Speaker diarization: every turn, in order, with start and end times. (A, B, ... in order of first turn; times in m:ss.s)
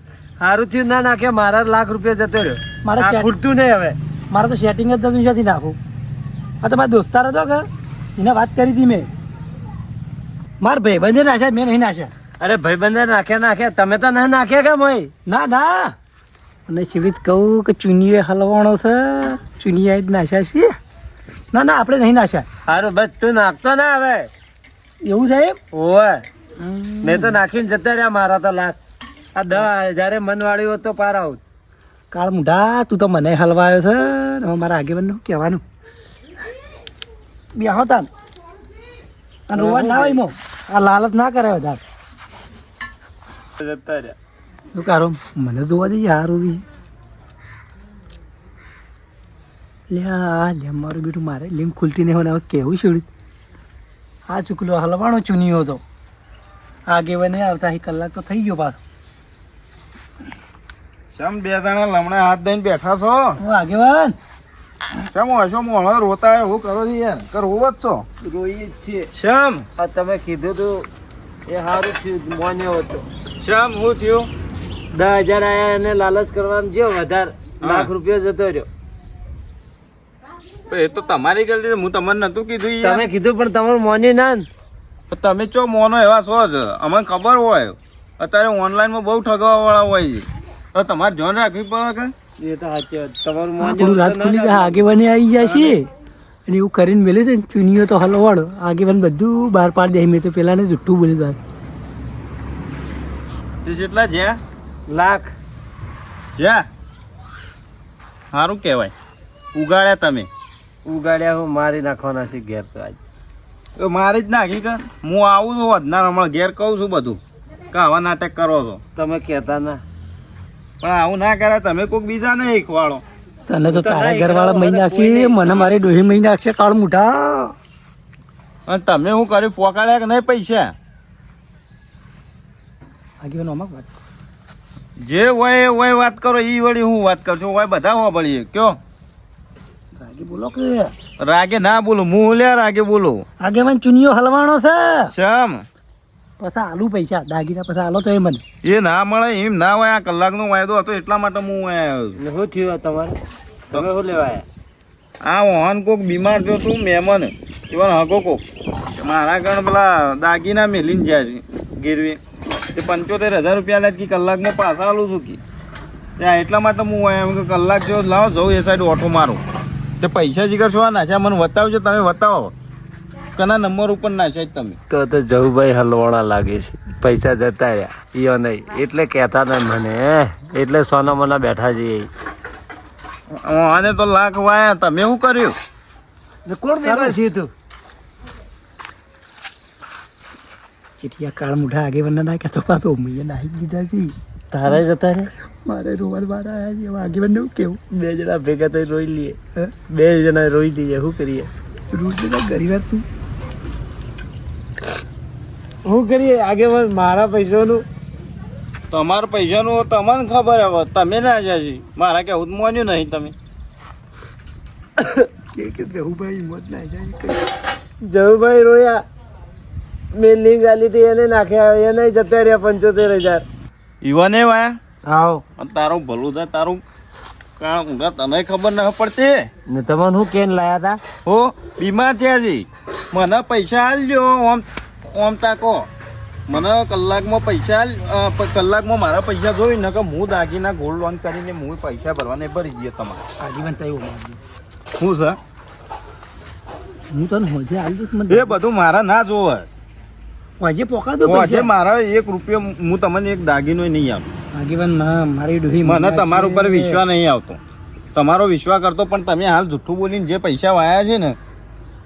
0:00.4-0:04.0 A
0:02.8-0:03.3 B
0:04.3-0:05.8 B
0:06.6-0:07.7 B
0:08.2-0:09.1 B
0:10.6-0:12.1 B
0:12.4-0:15.1 A
0:15.3-0:16.0 B
0:16.7-0:20.7 B
0:21.5-0:22.5 B
0:22.7-0:24.3 A
0:25.0-0:25.6 B
0:25.7-0:26.2 A
0:26.6-0:27.4 B
0:27.0-0:28.8 A
0:29.4-0:31.4 A
0:32.1-0:35.6 B
0:37.5-0:38.1 B
0:39.5-0:41.8 B
0:39.5-0:40.3 A
0:43.6-0:44.2 A
0:44.7-0:46.6 B
0:49.9-0:53.1 B
0:54.3-0:55.8 B
0:56.9-0:58.8 B
1:01.1-1:03.4 C
1:03.4-1:04.2 B
1:05.0-1:08.0 C
1:08.2-1:09.1 A
1:09.1-1:09.7 C
1:09.8-1:10.9 A
1:11.5-1:13.1 A
1:13.4-1:14.3 C
1:14.9-1:18.7 A
1:17.6-1:17.9 C
1:20.7-1:23.1 C
1:22.8-1:24.5 A
1:25.1-1:32.1 C
1:32.4-1:34.8 A
1:33.6-1:35.9 B
1:36.5-1:41.4 B
1:43.6-1:44.4 C
1:44.9-1:45.3 A
1:46.4-1:46.6 C
1:48.3-1:48.9 C
1:49.5-1:50.3 C
1:50.9-1:53.0 A
1:53.8-1:57.2 C
1:57.7-1:58.8 C
1:59.0-1:59.8 A
2:00.8-2:03.0 C
2:03.5-2:07.5 B
2:03.7-2:05.7 A
2:08.7-2:10.7 C
2:13.2-2:13.9 B
2:15.0-2:18.8 C
2:20.0-2:20.9 B
2:21.2-2:23.2 C
2:23.4-2:25.1 B
2:25.1-2:25.6 C
2:26.4-2:28.4 B
2:28.6-2:32.2 C
2:32.2-2:33.2 A
2:33.7-2:34.4 A
2:35.2-2:38.4 C
2:39.0-2:42.2 C
2:42.7-2:45.4 C
2:46.2-2:49.4 C
2:50.0-2:52.5 C
2:53.4-2:54.8 C
2:54.9-3:02.1 A
3:03.3-3:05.6 C
3:06.5-3:07.5 A
3:06.8-3:07.2 B
3:11.0-3:14.1 B
3:14.5-3:15.3 A
3:15.6-3:17.8 B
3:17.9-3:19.4 A
3:19.9-3:21.5 A
3:21.9-3:23.0 B
3:25.8-3:27.8 A
3:28.9-3:33.3 C
3:35.0-3:35.3 A
3:35.5-3:37.4 B
3:38.0-3:39.0 A
3:40.1-3:43.4 A
3:44.0-3:44.8 C
3:45.1-3:45.4 A
3:45.6-3:46.8 C
3:47.6-3:49.5 C
3:49.7-3:51.0 A
3:51.2-3:55.9 C
3:56.5-4:03.2 C
4:03.4-4:04.4 B
4:05.0-4:05.4 C
4:07.1-4:08.6 B
4:08.3-4:09.7 C
4:10.6-4:11.7 B
4:11.2-4:14.3 C
4:14.5-4:17.0 B
4:15.8-4:17.6 C
4:18.2-4:21.4 C